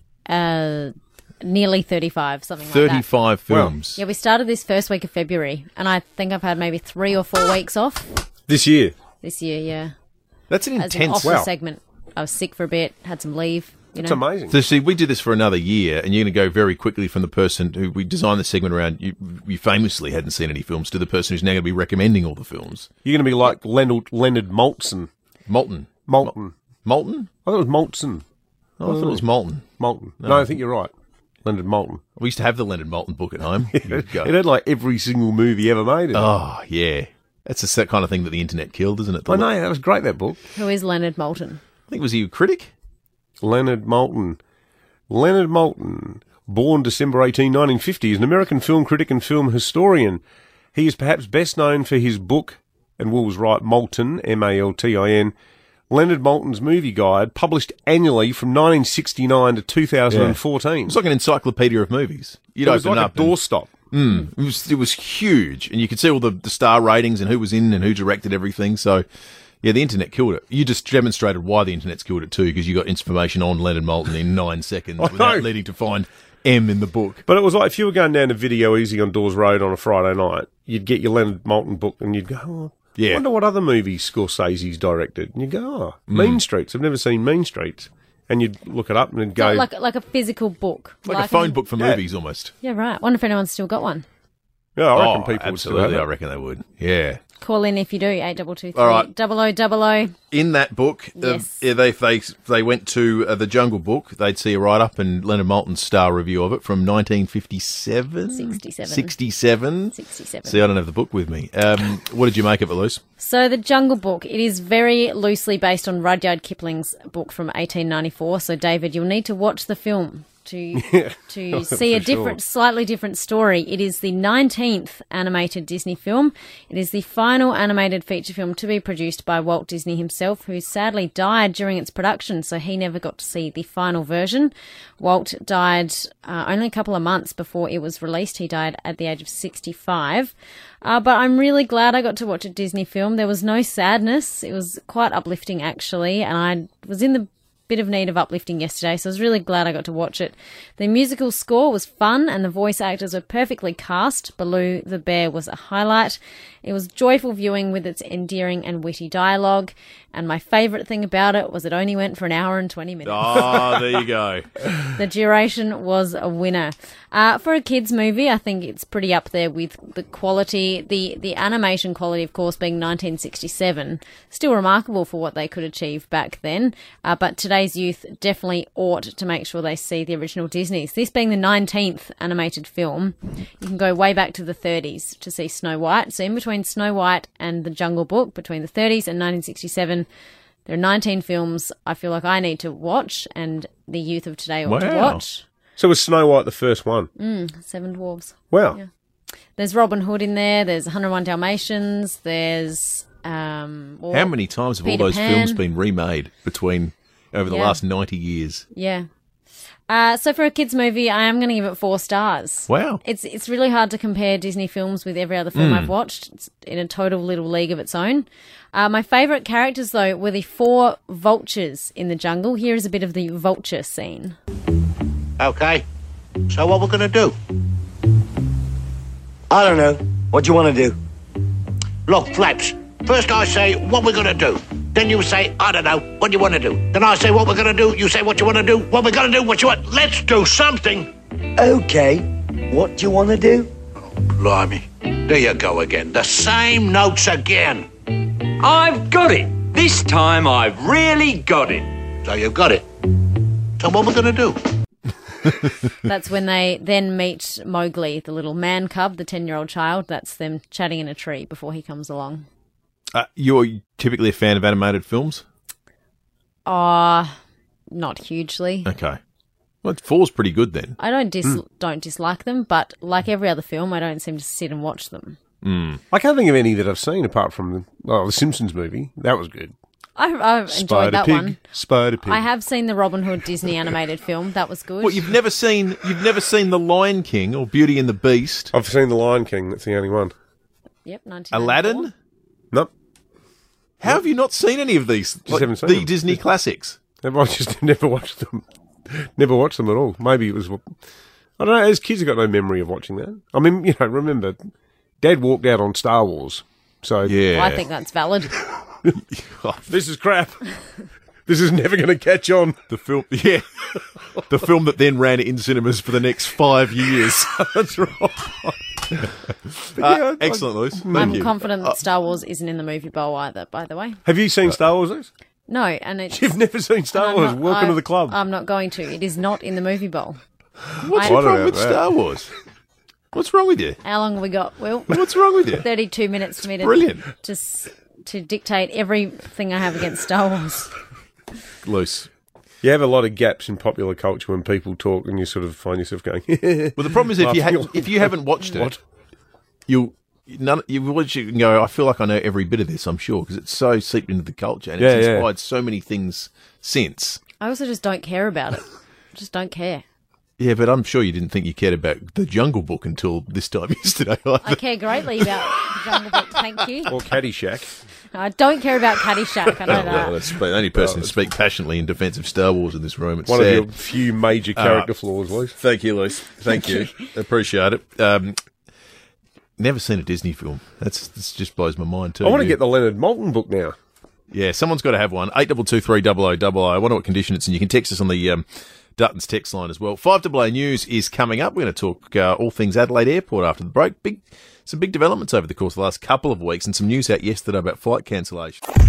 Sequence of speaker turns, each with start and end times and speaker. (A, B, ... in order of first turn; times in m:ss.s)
0:00.3-0:03.0 A
0:02.7-0:04.0 B
0:03.5-0:03.8 C
0:04.0-0:08.1 A
0:08.5-0:08.9 C
0:09.2-0:09.9 A
0:10.5-0:11.4 B
0:10.8-0:14.2 A
0:11.2-0:11.5 C
0:14.0-0:14.6 C
0:14.5-0:22.9 B
0:23.0-0:25.1 C
0:25.5-0:26.3 B
0:26.1-0:26.5 C
0:26.8-0:27.3 B
0:27.5-0:28.2 C
0:28.8-0:29.7 B
0:28.8-0:29.2 C
0:29.8-0:30.9 C
0:30.2-0:30.6 B
0:31.4-0:32.0 C
0:32.2-0:34.3 B
0:33.7-0:36.3 C
0:36.1-0:39.5 B
0:39.3-0:40.4 C
0:40.5-0:41.6 A
0:41.9-0:42.7 B
0:43.4-0:44.4 C
0:45.1-0:50.2 C
0:50.8-0:55.3 C
0:55.9-1:01.0 C
1:00.1-1:03.4 B
1:02.6-1:03.7 C
1:03.9-1:09.0 B
1:09.6-1:17.2 B
1:15.0-1:15.5 C
1:17.3-1:29.7 C
1:23.0-1:23.2 B
1:26.1-1:26.4 B
1:29.4-1:31.6 A
1:31.1-1:32.5 B
1:32.6-1:34.0 A
1:34.8-1:36.1 C
1:34.9-1:37.2 B
1:37.4-1:40.2 A
1:38.8-1:39.1 B
1:40.3-1:53.0 B
1:41.2-1:41.6 A
1:48.3-1:49.2 A
1:49.9-1:50.6 A
1:53.2-2:20.3 A
2:00.8-2:02.4 C
2:20.8-2:43.8 A
2:43.0-2:44.5 B
2:44.9-3:10.1 A
3:10.7-3:15.4 A
3:14.6-3:15.2 B
3:15.8-3:17.1 C
3:17.2-3:18.9 A
3:18.5-3:18.8 C
3:19.6-3:25.6 A
3:24.1-3:28.6 B
3:27.5-3:27.8 A
3:28.7-3:29.1 A
3:29.9-3:44.4 A
3:32.7-3:33.0 B
3:35.6-3:35.9 B
3:45.4-3:45.8 D
3:46.5-3:47.3 D
3:49.5-3:51.0 E
3:52.1-4:01.1 D
4:01.6-4:03.7 E
4:04.1-4:07.9 D
4:08.6-4:11.9 F
4:12.2-4:12.9 D
4:13.8-4:14.6 D
4:16.0-4:22.5 A
4:23.1-4:25.4 B
4:26.7-4:27.3 A
4:27.9-4:28.9 A
4:28.8-4:29.2 B
4:29.8-4:31.0 B
4:31.0-4:35.4 A
4:35.6-4:36.0 B
4:36.1-4:39.7 C
4:40.2-4:41.6 A
4:40.7-4:42.4 C
4:42.2-4:45.3 A
4:45.0-4:48.7 B
4:48.7-4:50.3 C
4:51.0-4:52.1 A
4:51.5-4:52.1 B
4:54.0-4:57.0 B
4:55.5-4:56.4 C
4:57.2-5:00.9 C
5:01.6-5:04.6 C
5:05.2-5:07.3 C
5:07.2-5:07.8 B
5:07.5-5:08.6 A
5:09.3-5:09.9 B
5:09.9-5:10.7 C
5:11.5-5:12.8 C
5:12.9-5:17.6 B
5:17.2-5:18.8 C
5:19.9-5:21.7 B
5:19.9-5:21.4 C
5:21.1-5:24.2 A
5:24.2-5:25.3 C
5:25.7-5:26.6 A
5:26.3-5:28.4 C
5:27.1-5:30.4 A
5:31.0-5:32.5 B
5:31.1-5:32.0 C
5:31.2-5:31.6 A
5:33.3-5:34.0 B
5:34.0-5:40.9 A
5:35.1-5:35.9 B
5:36.7-5:37.2 B
5:41.8-5:42.3 B
5:42.8-5:49.0 C
5:47.0-5:49.0 B
5:49.9-5:57.4 B
5:55.0-5:55.5 C
5:57.6-6:00.0 A
6:00.6-6:06.6 B
6:04.6-6:07.2 A
6:07.1-6:07.9 C
6:08.3-6:10.4 A
6:09.9-6:13.9 B
6:10.9-6:11.3 C
6:13.5-6:15.8 C
6:14.8-6:15.1 B
6:15.7-6:18.6 B
6:19.8-6:22.8 B
6:22.4-6:24.0 C
6:24.5-6:28.6 B
6:29.2-6:38.8 B